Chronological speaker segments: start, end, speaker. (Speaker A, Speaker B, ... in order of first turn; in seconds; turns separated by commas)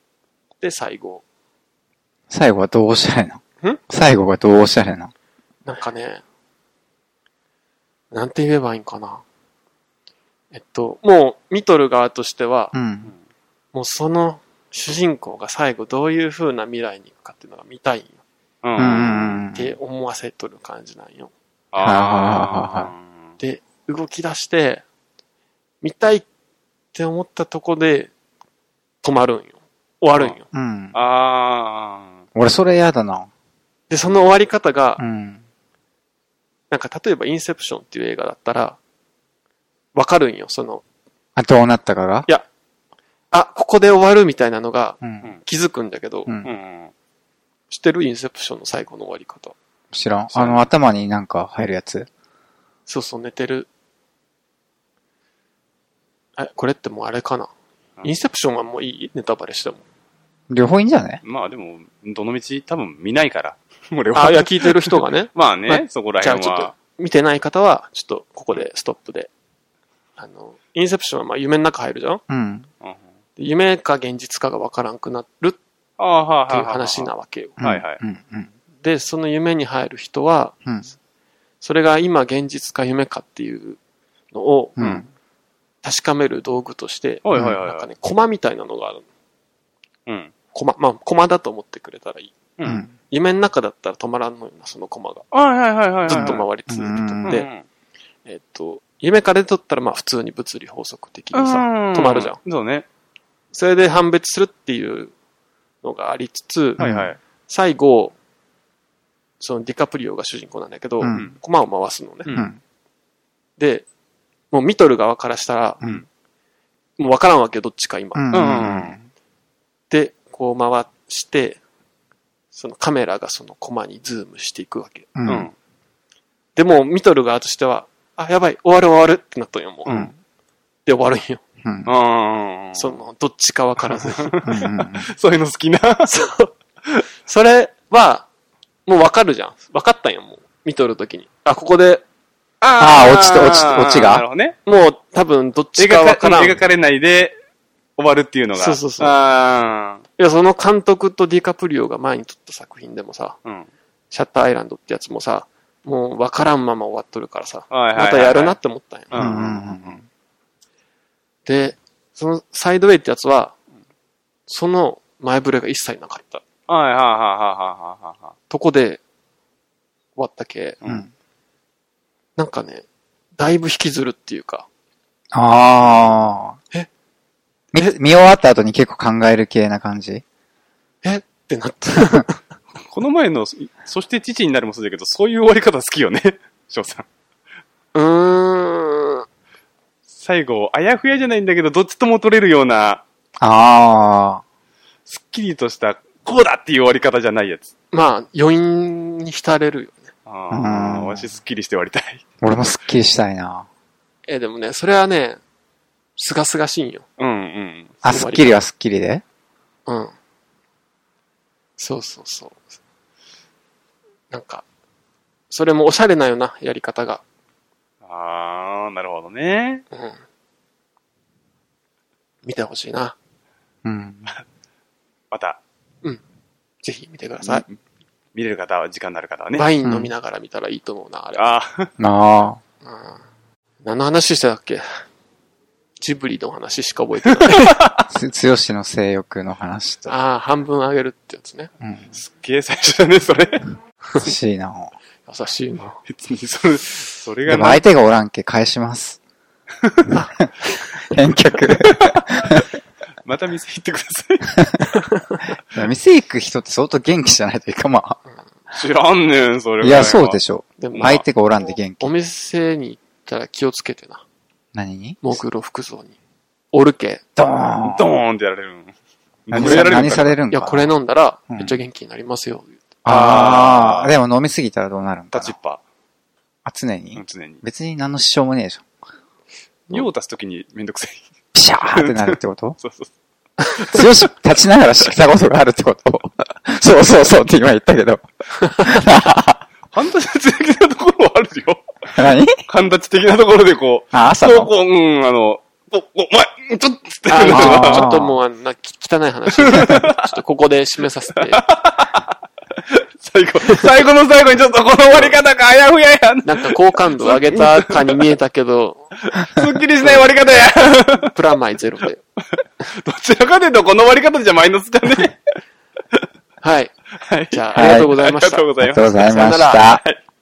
Speaker A: 0.6-1.2, Speaker B: 2.3-5.1, Speaker A: 5.7-6.2, Speaker A: 8.1-9.2, Speaker A: 10.5-12.7, Speaker B: 12.7-13.1, Speaker A: 13.7-18.2, Speaker C: 18.6-19.4, Speaker B: 18.8-19.7, Speaker A: 19.5-21.3, Speaker C: 21.7-23.3, Speaker B: 21.8-22.9, Speaker A: 23.4-24.8, Speaker A: 25.8-26.2, Speaker A: 26.9-28.1, Speaker A: 29.0-30.4, Speaker B: 30.5-31.0, Speaker C: 30.9-32.2, Speaker B: 32.3-33.3, Speaker A: 33.9-35.0, Speaker B: 35.0-35.4, Speaker A: 36.7-38.8, Speaker A: 39.9-40.8, Speaker B: 41.4-42.3, Speaker A: 43.3-46.3, Speaker B: 45.0-45.3, Speaker C: 46.4-46.9, Speaker A: 47.7-49.5, Speaker B: 49.9-52.1, Speaker C: 50.3-50.6, Speaker A: 52.9-53.7, Speaker A: 56.4-57.5, Speaker A: 58.0-59.8, Speaker B: 60.5-61.2, Speaker C: 61.2-66.7, Speaker A: 64.1-69.3, Speaker A: 70.2-72.2, Speaker B: 72.3-72.7, Speaker A: 73.4-75.6, Speaker C: 76.0-78.0, Speaker A: 76.5-77.6, Speaker B: 77.6-78.5, Speaker A: 78.8-80.6, Speaker A: 81.6-83.8, Speaker A: 84.3-84.8, Speaker B: 84.8-85.1, Speaker C: 84.8-85.0, Speaker A: 85.8-89.0, Speaker C: 87.2-87.9, Speaker C: 90.1-90.3, Speaker A: 90.5-92.4, Speaker C: 92.6-92.8, Speaker B: 92.6-92.9, Speaker A: 93.1-95.2, Speaker C: 95.3-96.5, Speaker A: 96.1-97.5, Speaker B: 96.1-97.4, Speaker C: 97.2-97.6, Speaker A: 98.3-102.4, Speaker C: 101.3-102.9, Speaker A: 103.5-105.1, Speaker A: 105.8-106.8, Speaker B: 106.8-107.1, Speaker C: 106.8-107.2, Speaker A: 107.5-108.2, Speaker A: 109.4-112.3, Speaker B: 111.0-111.3, Speaker C: 111.1-111.4, Speaker B: 112.3-112.6, Speaker A: 113.6-113.9, Speaker A: 114.5-115.8, Speaker A: 117.0-118.3, Speaker B: 118.2-119.0, Speaker C: 118.3-119.0, Speaker A: 119.9-121.6, Speaker A: 122.5-125.1, Speaker B: 125.2-125.5, Speaker C: 125.3-125.5, Speaker A: 126.5-130.0, Speaker A: 130.9-131.4, Speaker B: 131.6-131.9, Speaker C: 131.9-133.0, Speaker A: 132.7-134.4, Speaker C: 133.9-136.2, Speaker B: 134.4-135.1, Speaker A: 136.1-136.5, Speaker A: 137.3-138.3, Speaker A: 138.9-142.0, Speaker C: 142.6-144.6, Speaker B: 142.8-144.3, Speaker A: 144.7-146.6, Speaker C: 145.8-147.3, Speaker C: 148.0-150.1, Speaker A: 148.6-149.2, Speaker A: 150.2-153.4, Speaker A: 154.1-159.3, Speaker C: 157.7-158.6, Speaker C: 159.1-160.0, Speaker B: 159.2-160.0, Speaker A: 161.4-163.6, Speaker A: 164.5-166.4, Speaker C: 166.7-168.3, Speaker A: 168.5-169.0, Speaker A: 170.2-170.8, Speaker A: 172.4-172.9, Speaker A: 173.4-174.7, Speaker B: 175.3-176.6, Speaker C: 175.8-176.2, Speaker B: 177.7-180.2, Speaker A: 181.0-182.4, Speaker C: 182.8-187.1, Speaker A: 187.9-189.2, Speaker C: 190.1-193.0, Speaker B: 193.4-194.4, Speaker C: 195.1-197.7, Speaker A: 197.9-200.1, Speaker C: 200.3-202.2, Speaker B: 200.5-201.3, Speaker B: 202.4-203.7, Speaker A: 204.3-205.4, Speaker A: 206.2-207.1, Speaker C: 207.2-208.0, Speaker B: 208.0-209.2, Speaker A: 208.1-208.6, Speaker A: 209.9-210.1, Speaker A: 211.8-212.6, Speaker A: 214.3-214.7, Speaker A: 215.5-217.2, Speaker C: 218.0-219.8, Speaker A: 219.9-220.2, Speaker A: 222.4-223.2, Speaker B: 223.8-224.3, Speaker C: 225.3-225.6, Speaker A: 226.8-227.6, Speaker C: 227.4-227.8, Speaker C: 228.3-229.7, Speaker A: 229.5-231.5, Speaker B: 229.8-230.1, Speaker C: 231.4-231.9, Speaker B: 232.0-232.6, Speaker A: 232.8-233.2, Speaker A: 233.8-234.8, Speaker A: 236.0-237.8, Speaker C: 237.4-238.1, Speaker B: 238.1-240.1, Speaker A: 240.1-241.7, Speaker B: 241.8-242.1, Speaker C: 242.1-243.7, Speaker B: 244.2-244.9, Speaker A: 245.3-246.0, Speaker C: 246.1-247.8, Speaker B: 247.5-249.2, Speaker C: 249.8-250.1, Speaker A: 250.1-250.9, Speaker B: 251.1-252.6, Speaker C: 251.8-252.6, Speaker C: 253.2-254.9, Speaker A: 255.1-255.4, Speaker B: 255.7-258.2, Speaker C: 258.7-260.4, Speaker B: 259.8-262.1, Speaker A: 260.8-261.2, Speaker C: 260.9-261.2, Speaker A: 262.0-264.2, Speaker B: 264.7-265.4, Speaker A: 265.2-266.2, Speaker A: 266.7-267.2, Speaker B: 267.4-268.0, Speaker C: 267.8-268.9, Speaker C: 269.5-270.4, Speaker B: 269.5-270.9, Speaker A: 269.5-273.6, Speaker B: 271.5-271.8, Speaker B: 273.1-275.6, Speaker C: 273.1-274.1, Speaker C: 275.3-275.8, Speaker B: 276.6-278.8, Speaker C: 277.1-277.6, Speaker C: 279.9-281.3, Speaker B: 281.5-282.8, Speaker C: 281.9-283.1, Speaker C: 283.7-284.3, Speaker B: 283.9-289.6, Speaker C: 289.9-291.8, Speaker B: 292.1-292.6, Speaker C: 292.7-298.1, Speaker B: 294.1-294.7, Speaker A: 297.3-301.6, Speaker B: 297.5-298.3, Speaker C: 299.6-300.4, Speaker C: 301.4-302.3, Speaker C: 302.9-308.2, Speaker A: 305.1-305.4, Speaker A: 306.4-309.1, Speaker C: 309.2-311.3, Speaker A: 310.0-310.3, Speaker A: 311.2-312.2, Speaker C: 312.5-315.5, Speaker A: 316.6-316.9, Speaker C: 317.2-320.2, Speaker A: 317.5-318.7, Speaker B: 317.7-318.1, Speaker B: 318.8-320.0, Speaker A: 319.2-319.9